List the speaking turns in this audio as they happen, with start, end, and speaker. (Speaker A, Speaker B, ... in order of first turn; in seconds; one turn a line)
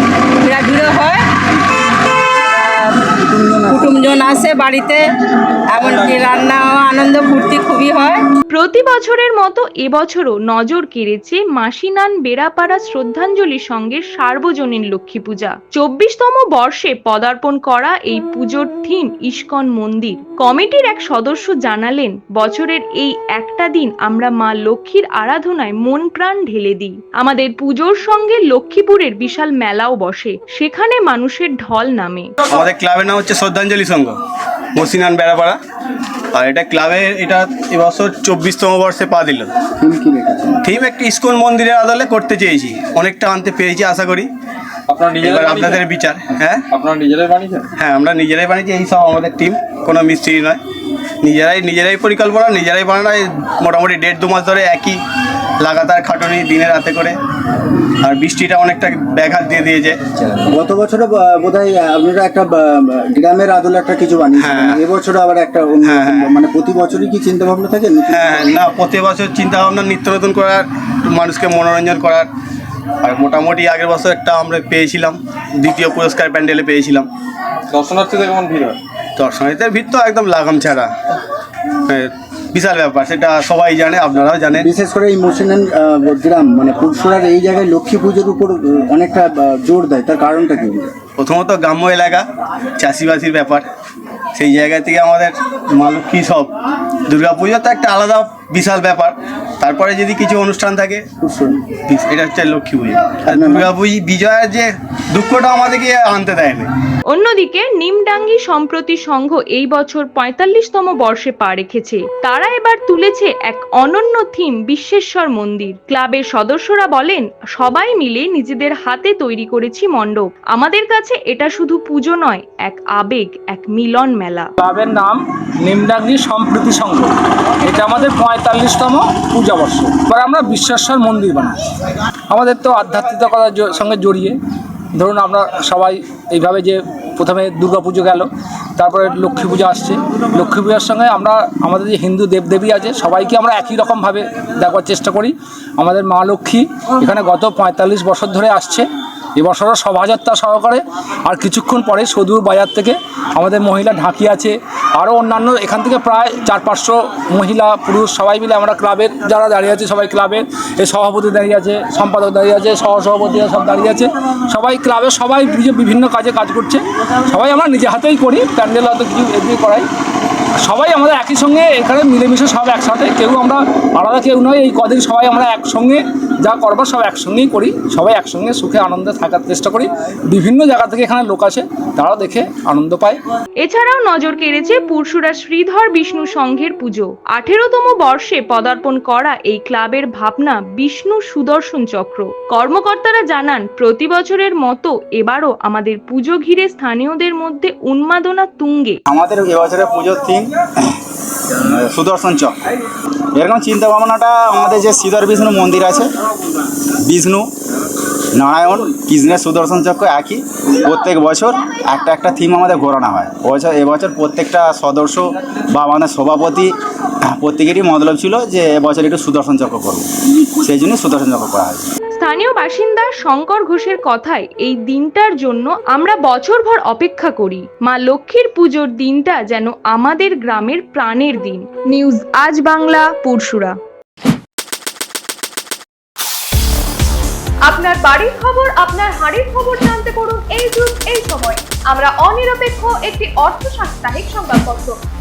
Speaker A: 0.4-1.2
Speaker A: 2.6-3.0
Speaker B: 3.2-4.0
Speaker A: 3.7-5.0
Speaker A: 5.7-8.2
Speaker C: 8.5-32.3
Speaker D: 32.5-34.2
Speaker D: 34.8-35.6
Speaker D: 36.3-39.5
Speaker B: 39.8-40.6
Speaker D: 40.6-44.3
Speaker E: 44.9-45.8
Speaker D: 45.2-46.6
Speaker E: 46.7-47.7
Speaker D: 47.8-50.6
Speaker D: 51.2-55.0
Speaker D: 55.6-57.2
Speaker D: 58.0-60.0
Speaker B: 60.5-68.5
Speaker D: 64.4-64.8
Speaker D: 65.8-66.4
Speaker D: 68.1-72.3
Speaker D: 73.0-77.1
Speaker E: 77.7-78.8
Speaker D: 79.2-80.9
Speaker D: 81.9-84.7
Speaker B: 84.6-90.9
Speaker D: 91.2-92.3
Speaker D: 92.8-93.7
Speaker D: 94.3-96.5
Speaker D: 97.1-101.1
Speaker B: 101.2-101.5
Speaker D: 101.9-106.7
Speaker B: 103.3-103.7
Speaker C: 107.1-124.5
Speaker F: 124.6-131.6
Speaker F: 132.3-134.4
Speaker F: 134.9-148.9
Speaker F: 149.4-169.9
Speaker F: 170.6-183.2
Speaker C: 183.6-199.0
Speaker G: 199.1-201.0
Speaker G: 201.5-202.6
Speaker G: 203.3-206.1
Speaker G: 206.9-207.5
Speaker G: 208.3-216.7
Speaker G: 217.3-221.9
Speaker C: 222.2-233.8
Speaker H: 237.7-245.0